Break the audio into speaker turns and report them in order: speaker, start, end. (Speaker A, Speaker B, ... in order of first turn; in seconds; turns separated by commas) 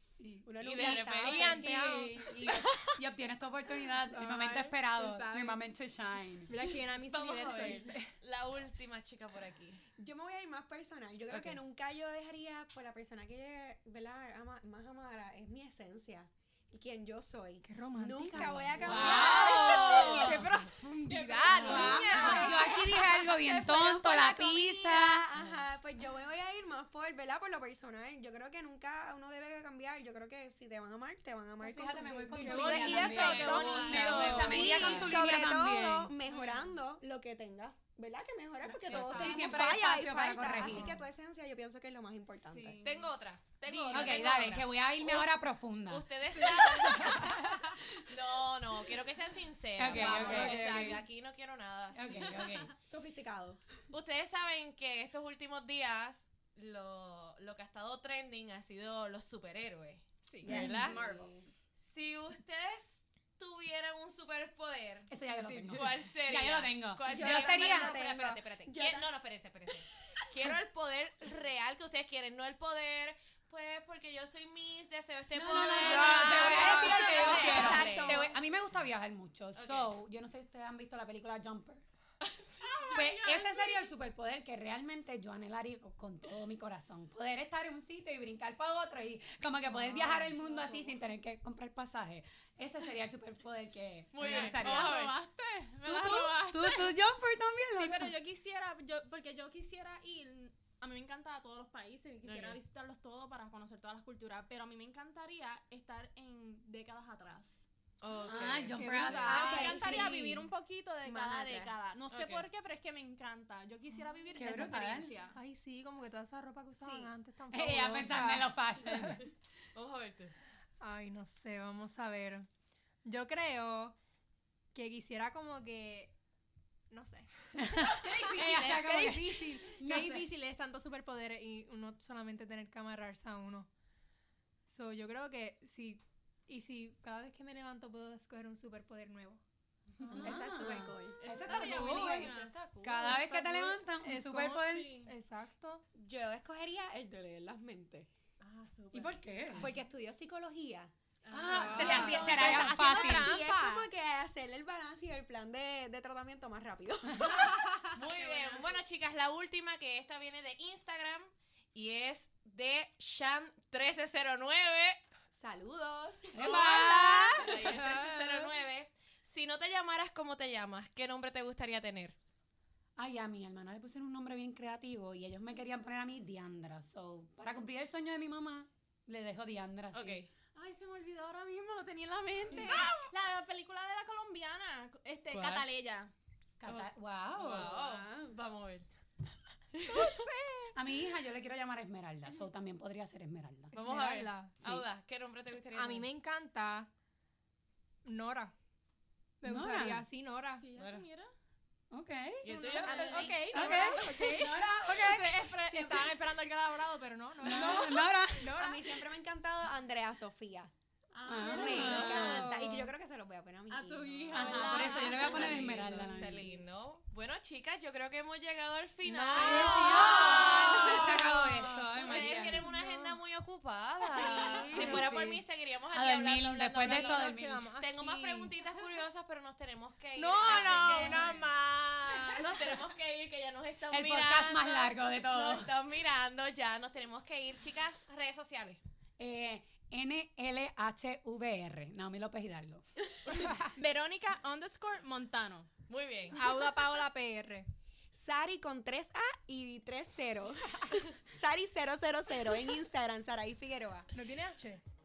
Speaker A: 0.2-6.5, Speaker B: 0.5-1.6, Speaker C: 0.6-1.7, Speaker D: 0.8-2.9, Speaker D: 4.1-5.7, Speaker D: 6.5-8.1, Speaker C: 7.0-9.9, Speaker B: 10.0-20.4, Speaker C: 11.3-11.6, Speaker D: 17.6-22.9, Speaker A: 18.3-20.4, Speaker C: 18.8-20.5, Speaker E: 19.1-19.4, Speaker E: 21.1-22.5, Speaker B: 21.4-42.9, Speaker C: 21.5-22.4, Speaker A: 21.5-25.3, Speaker C: 25.3-25.6, Speaker A: 31.6-36.1, Speaker D: 32.4-34.9, Speaker C: 33.0-35.2, Speaker E: 33.0-35.2, Speaker E: 36.2-36.7, Speaker E: 38.6-39.7, Speaker A: 38.9-41.0, Speaker D: 40.5-41.0, Speaker E: 42.5-43.1, Speaker C: 42.8-45.3, Speaker E: 43.6-44.4, Speaker A: 43.9-46.1, Speaker C: 45.9-52.4, Speaker D: 46.4-47.6, Speaker E: 46.7-47.6, Speaker A: 49.8-51.0, Speaker D: 49.9-51.0, Speaker B: 49.9-50.7, Speaker A: 51.9-52.8, Speaker E: 52.2-52.7, Speaker B: 52.8-53.6, Speaker C: 53.9-61.0, Speaker E: 60.3-60.8, Speaker A: 60.4-61.4, Speaker B: 60.5-61.4, Speaker C: 61.8-65.1, Speaker A: 65.1-68.0, Speaker D: 65.4-66.0, Speaker C: 65.7-78.2, Speaker B: 67.0-69.1, Speaker A: 75.3-81.8, Speaker B: 75.7-78.3, Speaker E: 75.9-77.7, Speaker C: 79.5-79.9, Speaker C: 82.2-83.0, Speaker E: 82.6-83.8, Speaker A: 82.9-95.1, Speaker C: 89.8-90.3, Speaker E: 90.0-91.0, Speaker C: 94.1-95.2, Speaker E: 94.2-97.0, Speaker A: 95.8-98.2, Speaker E: 97.8-107.7, Speaker C: 102.2-102.6, Speaker C: 108.0-109.4, Speaker A: 108.3-109.7, Speaker D: 108.8-110.4, Speaker B: 109.2-110.4, Speaker E: 109.3-115.4, Speaker B: 111.0-111.7, Speaker C: 112.1-112.5, Speaker A: 114.4-115.2, Speaker D: 115.3-119.2, Speaker E: 116.8-117.1, Speaker A: 117.5-119.2, Speaker C: 119.8-120.4, Speaker D: 120.8-122.5, Speaker D: 123.0-124.0, Speaker D: 124.7-126.2, Speaker D: 126.9-133.7, Speaker A: 127.6-130.3, Speaker E: 128.0-128.5, Speaker D: 134.7-139.4, Speaker A: 140.0-145.0, Speaker D: 140.1-140.9, Speaker B: 140.2-142.3, Speaker E: 141.2-143.5, Speaker D: 141.5-145.8, Speaker E: 144.6-145.1, Speaker B: 145.9-148.1, Speaker E: 148.4-149.7, Speaker A: 148.9-149.7, Speaker B: 149.6-150.9, Speaker E: 151.2-152.6, Speaker A: 151.3-153.3, Speaker D: 151.5-153.9, Speaker B: 151.5-157.6, Speaker E: 157.3-158.8, Speaker C: 157.9-165.0, Speaker B: 165.3-166.7, Speaker A: 166.3-167.5, Speaker C: 166.4-172.2, Speaker D: 167.4-168.5, Speaker A: 173.0-180.2, Speaker C: 179.9-180.3, Speaker E: 180.6-186.1, Speaker C: 182.7-183.1, Speaker C: 185.3-185.7, Speaker A: 186.6-187.8, Speaker C: 186.7-188.9, Speaker C: 189.7-190.2, Speaker E: 189.9-190.3, Speaker D: 190.0-190.7, Speaker A: 190.8-193.7, Speaker D: 193.7-194.8, Speaker C: 193.7-196.1, Speaker D: 195.7-196.9, Speaker D: 198.1-198.5, Speaker D: 199.4-200.7, Speaker A: 199.4-200.0, Speaker E: 200.6-201.3, Speaker C: 200.8-201.1, Speaker A: 201.9-205.5, Speaker C: 202.4-203.4, Speaker B: 202.8-203.7, Speaker E: 203.0-204.1, Speaker D: 203.0-209.0, Speaker E: 204.9-206.3, Speaker A: 207.4-208.6, Speaker E: 207.5-207.8, Speaker B: 208.4-210.7, Speaker E: 211.1-212.4, Speaker A: 211.3-212.5, Speaker D: 211.4-212.9, Speaker B: 211.5-214.7, Speaker E: 213.7-216.0, Speaker A: 214.3-216.5, Speaker D: 214.4-216.0, Speaker C: 215.1-221.2, Speaker D: 219.0-223.2, Speaker A: 219.3-222.7, Speaker B: 220.4-220.7, Speaker C: 222.0-231.5, Speaker B: 224.1-225.1, Speaker D: 224.2-225.0, Speaker A: 224.7-227.7, Speaker D: 226.8-228.6, Speaker D: 230.2-232.8, Speaker A: 230.5-231.3, Speaker E: 232.2-232.6, Speaker C: 232.4-238.8, Speaker A: 233.9-235.7, Speaker A: 239.2-242.8, Speaker D: 243.3-243.6, Speaker E: 243.5-245.7, Speaker C: 245.9-246.7, Speaker D: 246.4-247.7, Speaker B: 248.1-254.1, Speaker D: 254.1-254.8